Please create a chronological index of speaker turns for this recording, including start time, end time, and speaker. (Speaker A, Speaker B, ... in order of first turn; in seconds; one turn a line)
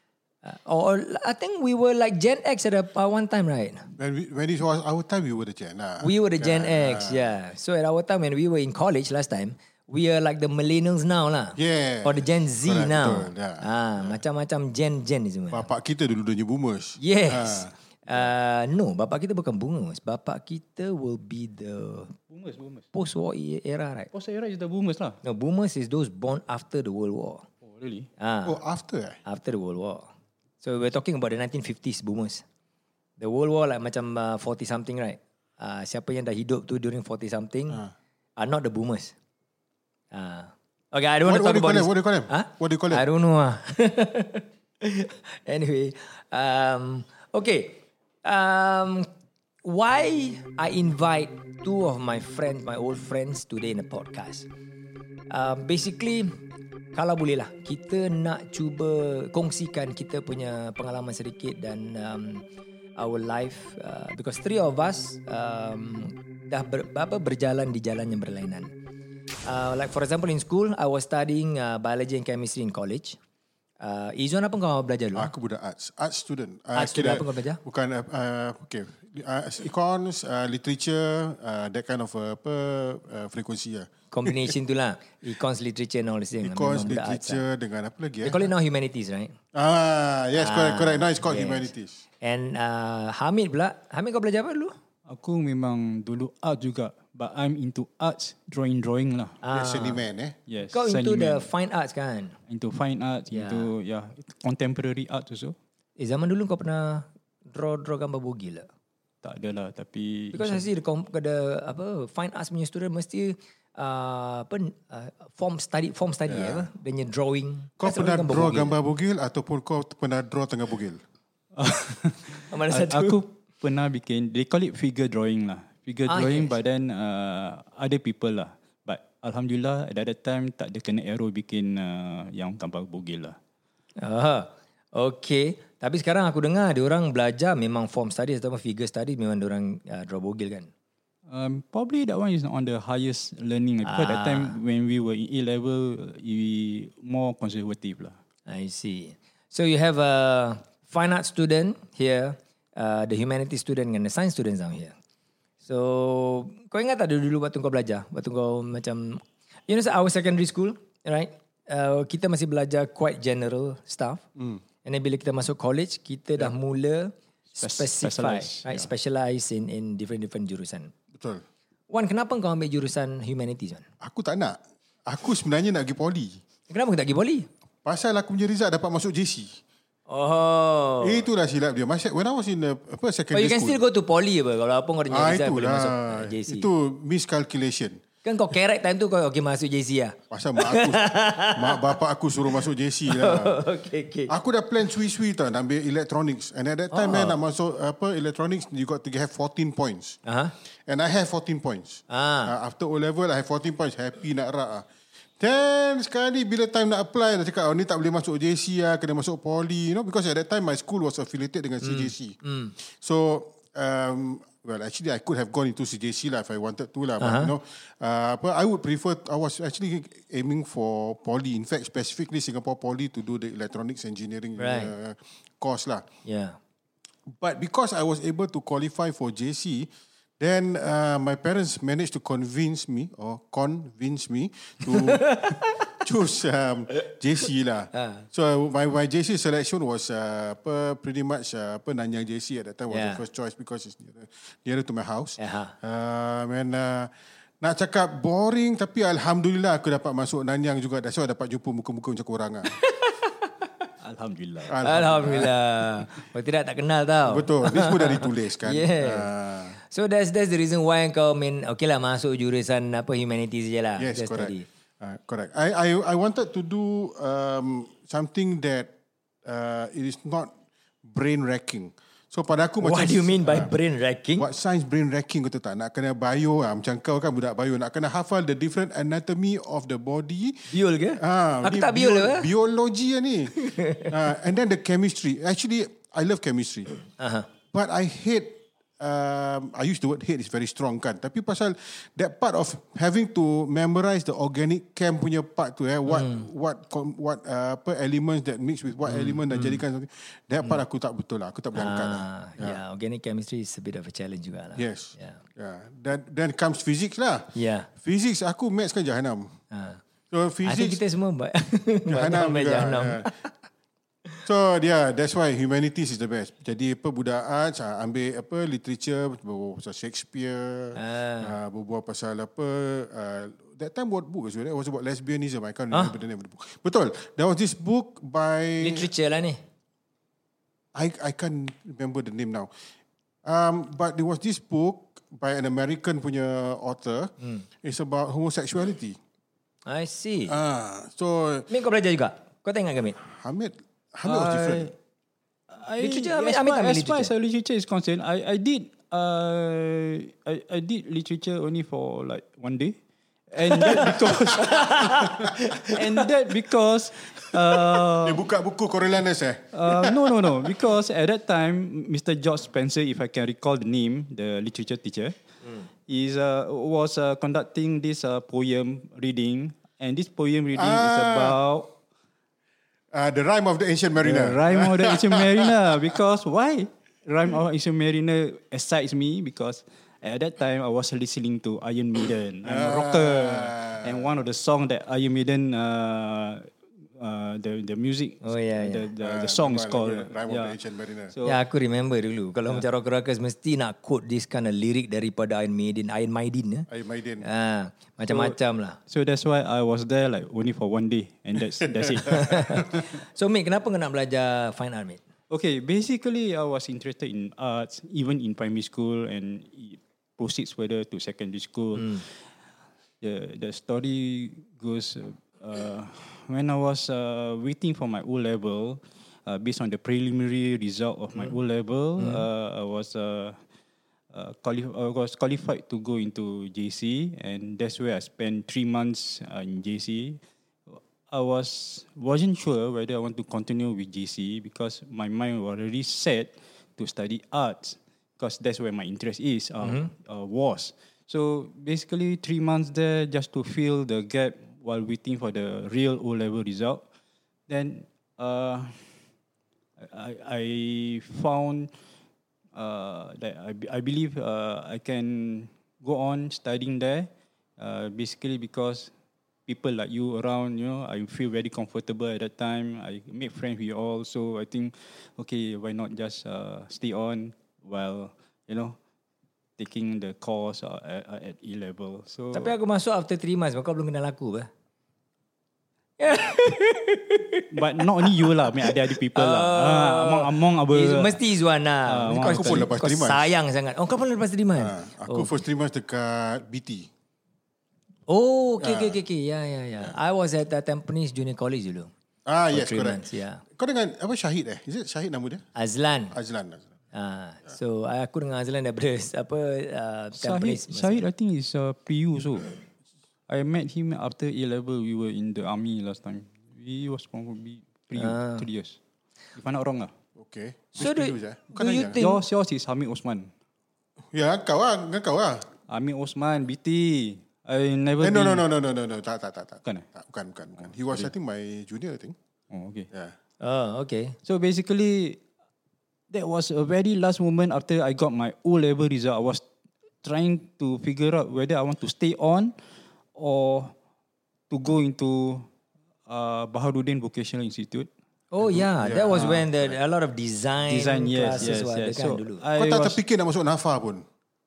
Speaker A: 0.4-3.9
Speaker B: 4.0-7.2
Speaker A: 6.0-15.7
Speaker B: 11.6-14.2
Speaker B: 15.5-18.3
Speaker A: 17.0-22.1
Speaker C: 22.3-22.8
Speaker A: 22.9-24.1
Speaker C: 24.1-25.2
Speaker A: 25.2-27.4
Speaker C: 27.6-28.1
Speaker A: 28.2-28.6
Speaker B: 28.4-29.2
Speaker A: 29.2-30.1
Speaker A: 30.6-32.4
Speaker A: 33.2-37.8
Speaker A: 38.4-39.1
Speaker A: 40.1-49.1
Speaker B: 41.2-43.0
Speaker A: 49.6-54.5
Speaker A: 55.3-56.3
Speaker A: 56.9-62.4
Speaker A: 63.0-68.7
Speaker A: 69.5-73.2
Speaker A: 73.8-75.3
Speaker B: 75.2-84.5
Speaker A: 76.8-77.6
Speaker A: 84.1-87.4
Speaker B: 86.4-88.5
Speaker A: 88.2-89.3
Speaker B: 89.5-92.0
Speaker A: 90.4-91.7
Speaker A: 92.2-94.8
Speaker C: 95.1-99.4
Speaker A: 99.4-100.0
Speaker B: 99.5-100.4
Speaker C: 100.5-101.5
Speaker A: 100.7-102.4
Speaker C: 102.5-105.5
Speaker A: 103.3-103.7
Speaker A: 106.0-108.7
Speaker C: 109.2-110.7
Speaker A: 110.3-118.8
Speaker B: 116.3-116.7
Speaker B: 117.8-121.0
Speaker C: 121.5-133.3
Speaker A: 122.5-123.2
Speaker A: 126.1-126.5
Speaker A: 134.0-140.7
Speaker C: 141.3-148.2
Speaker A: 143.8-144.6
Speaker A: 148.5-154.9
Speaker A: 155.6-164.2
Speaker B: 164.4-164.6
Speaker A: 164.8-170.9
Speaker C: 167.6-168.9
Speaker B: 171.2-171.4
Speaker A: 171.9-173.8
Speaker B: 174.0-176.4
Speaker A: 176.7-177.5
Speaker B: 177.8-179.6
Speaker A: 180.1-181.3
Speaker B: 181.0-183.8
Speaker A: 183.3-186.7
Speaker B: 185.1-188.0
Speaker A: 188.2-191.9
Speaker B: 190.3-193.6
Speaker A: 193.1-194.3
Speaker B: 194.3-200.2
Speaker A: 196.9-197.4
Speaker A: 200.2-200.5
Speaker B: 200.9-204.9
Speaker A: 202.1-202.5
Speaker B: 205.4-226.1
Speaker A: 211.8-212.7
Speaker A: 217.2-217.5
Speaker A: 224.6-224.9
Speaker A: 226.2-226.6
Speaker B: 227.3-252.7
Speaker A: 234.9-236.0
Speaker A: 237.9-238.2
Speaker A: 242.9-243.2
Speaker A: 245.4-245.7
Speaker A: 252.8-253.2
Speaker C: 254.0-255.4
Speaker B: 254.7-255.5
Speaker A: 254.8-259.3
Speaker B: 257.3-259.8
Speaker A: 259.8-264.6
Speaker B: 264.0-268.9
Speaker B: 269.4-270.5
Speaker B: 271.0-273.7
Speaker A: 272.8-274.5
Speaker B: 274.4-287.0
Speaker A: 280.7-282.5
Speaker A: 283.5-284.1
Speaker A: 287.2-287.5
Speaker B: 287.7-302.8
Speaker A: 296.1-296.4
Speaker A: 299.1-299.8
Speaker A: 301.8-305.4
Speaker B: 304.8-309.6
Speaker A: 307.5-307.9
Speaker A: 309.7-310.0
Speaker B: 310.3-311.0
Speaker A: 310.6-313.5
Speaker B: 312.1-313.3
Speaker B: 314.5-329.1
Speaker A: 321.0-321.5
Speaker A: 328.8-329.6
Speaker B: 330.9-332.7
Speaker B: 333.4-339.2
Speaker A: 339.9-340.5
Speaker B: 340.5-341.7
Speaker A: 341.7-343.2
Speaker B: 343.2-344.9
Speaker C: 344.2-344.9
Speaker C: 345.7-353.0
Speaker A: 346.0-347.3
Speaker C: 353.5-355.3
Speaker A: 354.6-356.0
Speaker C: 355.8-358.4
Speaker B: 357.7-360.7
Speaker C: 359.7-365.4
Speaker C: 366.1-371.9
Speaker B: 370.8-371.6
Speaker B: 373.1-376.2
Speaker C: 374.2-390.8
Speaker B: 382.6-384.3
Speaker A: 388.4-389.1
Speaker B: 389.2-391.4
Speaker C: 391.3-391.6
Speaker A: 391.4-396.9
Speaker B: 396.9-397.5
Speaker A: 397.4-399.0
Speaker C: 398.3-398.6
Speaker C: 399.1-402.9
Speaker B: 402.2-402.8
Speaker A: 402.3-405.2
Speaker C: 405.5-412.3
Speaker A: 412.0-412.2
Speaker C: 413.2-423.6
Speaker A: 422.2-422.4
Speaker C: 424.3-447.0
Speaker A: 439.8-440.1
Speaker C: 447.7-449.1
Speaker C: 450.0-451.9
Speaker C: 452.8-459.1
Speaker C: 459.7-469.0
Speaker C: 469.8-472.8
Speaker A: 472.5-474.7
Speaker A: 476.2-485.5
Speaker C: 477.7-481.4
Speaker C: 482.1-482.9
Speaker B: 482.4-483.5
Speaker B: 484.8-487.1
Speaker A: 488.3-492.1
Speaker B: 488.8-489.2
Speaker B: 492.5-495.6
Speaker A: 492.7-493.6
Speaker A: 495.8-496.4
Speaker B: 496.3-496.9
Speaker A: 497.1-501.2
Speaker C: 500.4-502.8
Speaker C: 503.5-509.0
Speaker A: 508.1-508.7
Speaker C: 509.6-510.1
Speaker B: 510.4-512.2
Speaker A: 511.0-512.4
Speaker C: 512.2-513.5
Speaker B: 514.3-515.7
Speaker C: 515.9-518.6
Speaker B: 518.2-522.4
Speaker C: 522.7-523.1
Speaker A: 523.6-524.4
Speaker C: 524.5-525.4
Speaker C: 526.3-529.6
Speaker C: 530.2-532.7
Speaker C: 533.4-533.9
Speaker C: 534.7-535.7
Speaker C: 536.3-538.1
Speaker A: 538.5-542.6
Speaker B: 538.6-539.9
Speaker C: 540.9-543.2
Speaker B: 542.8-544.2